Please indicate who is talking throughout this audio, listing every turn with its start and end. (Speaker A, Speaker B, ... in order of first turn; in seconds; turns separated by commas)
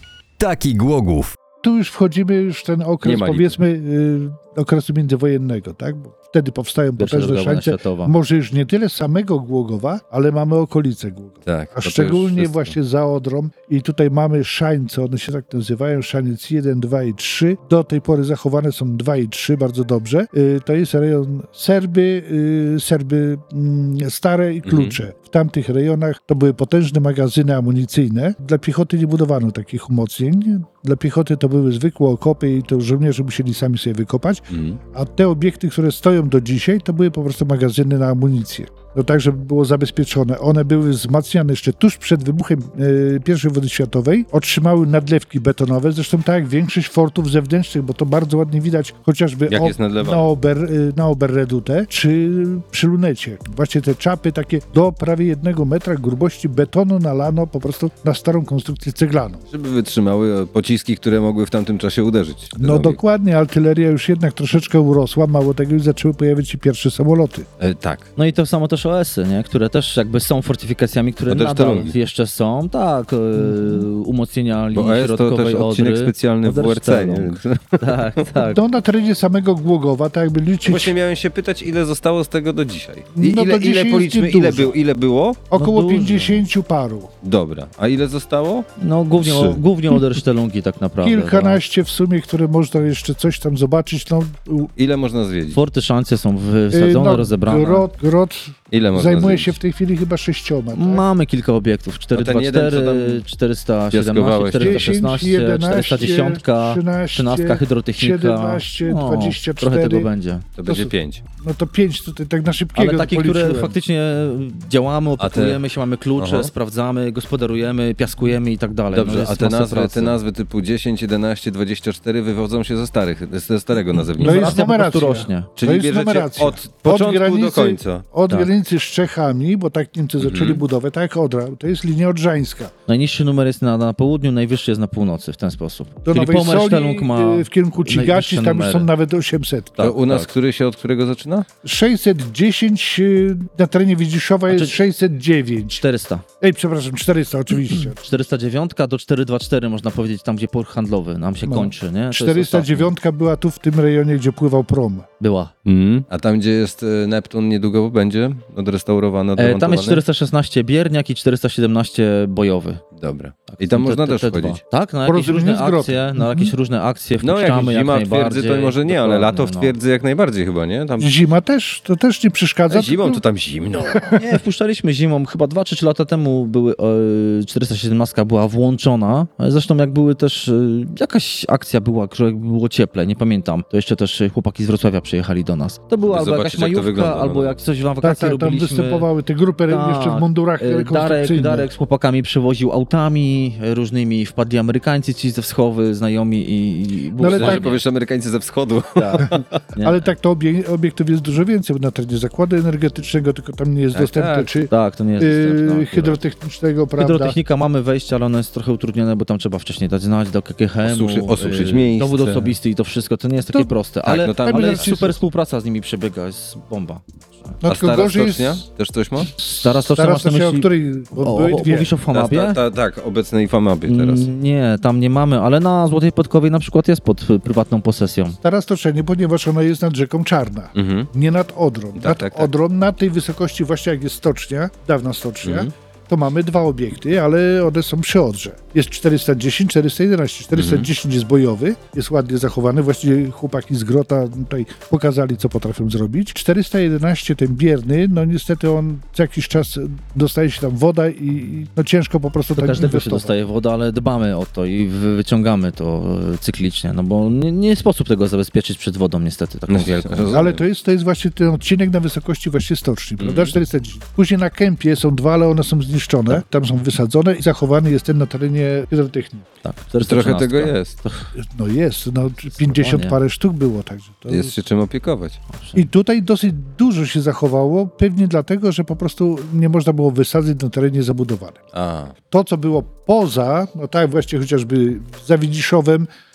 Speaker A: 0.4-1.4, Speaker B: 1.6-59.4, Speaker A: 3.0-3.6, Speaker C: 7.0-8.1, Speaker A: 11.5-12.7, Speaker A: 24.7-25.0, Speaker A: 34.5-34.8, Speaker A: 49.5-50.3, Speaker A: 59.5-63.0, Speaker B: 62.6-67.5, Speaker A: 67.6-68.1, Speaker C: 68.2-78.6, Speaker A: 71.3-71.9, Speaker B: 73.4-73.8, Speaker A: 74.7-78.3, Speaker B: 78.5-80.9, Speaker A: 80.7-85.5, Speaker B: 83.2-84.8, Speaker B: 85.5-87.1, Speaker C: 85.5-86.4, Speaker A: 87.2-88.7, Speaker C: 88.8-91.6, Speaker A: 89.2-89.6, Speaker B: 91.0-94.7, Speaker A: 94.8-95.6, Speaker C: 95.5-97.9, Speaker B: 96.7-101.0, Speaker A: 98.7-99.6, Speaker C: 100.7-110.5, Speaker A: 102.1-103.2, Speaker A: 103.9-105.0, Speaker B: 104.6-110.1, Speaker A: 110.6-111.2, Speaker B: 110.7-113.8, Speaker C: 112.8-120.2, Speaker A: 115.2-115.6, Speaker A: 116.2-116.5, Speaker A: 118.9-124.6, Speaker C: 124.2-125.5, Speaker B: 124.2-132.7, Speaker A: 125.6-128.1, Speaker A: 130.2-130.6, Speaker C: 132.9-138.9, Speaker B: 136.1-139.9, Speaker A: 139.8-141.5, Speaker C: 139.8-140.3, Speaker B: 141.6-145.8, Speaker C: 144.5-144.8, Speaker C: 145.8-146.2, Speaker B: 146.4-148.0, Speaker C: 147.7-152.9, Speaker B: 151.5-155.1, Speaker C: 155.2-155.5, Speaker A: 155.7-160.0, Speaker C: 159.4-162.8, Speaker A: 163.0-164.6, Speaker C: 163.5-169.8, Speaker B: 165.1-166.5, Speaker A: 167.2-171.3, Speaker B: 171.0-173.2, Speaker A: 172.7-174.1, Speaker B: 173.9-174.2, Speaker C: 174.1-189.1, Speaker A: 186.0-187.6, Speaker B: 188.0-191.7, Speaker C: 189.7-197.8, Speaker B: 197.2-197.8, Speaker A: 197.3-199.6, Speaker C: 199.0-200.1, Speaker B: 199.2-207.4, Speaker A: 203.9-204.6, Speaker C: 204.7-206.2, Speaker C: 207.0-217.6, Speaker A: 210.8-212.5, Speaker A: 214.1-215.1, Speaker B: 214.4-215.1, Speaker B: 217.6-218.7, Speaker A: 217.6-219.3, Speaker B: 219.3-221.9, Speaker C: 219.6-222.6, Speaker A: 222.1-224.3, Speaker C: 223.9-228.4, Speaker B: 228.4-253.3, Speaker A: 230.8-231.1, Speaker A: 231.9-232.5, Speaker A: 235.4-235.7, Speaker A: 240.6-240.9, Speaker C: 252.6-260.4, Speaker A: 259.7-260.6, Speaker B: 260.3-269.5, Speaker A: 263.2-263.5, Speaker C: 269.6-271.3, Speaker A: 270.0-271.0, Speaker B: 271.4-274.5, Speaker C: 272.7-273.2, Speaker A: 274.3-275.4, Speaker C: 275.5-275.8, Speaker B: 275.8-281.6, Speaker A: 281.7-282.1, Speaker B: 282.3-286.1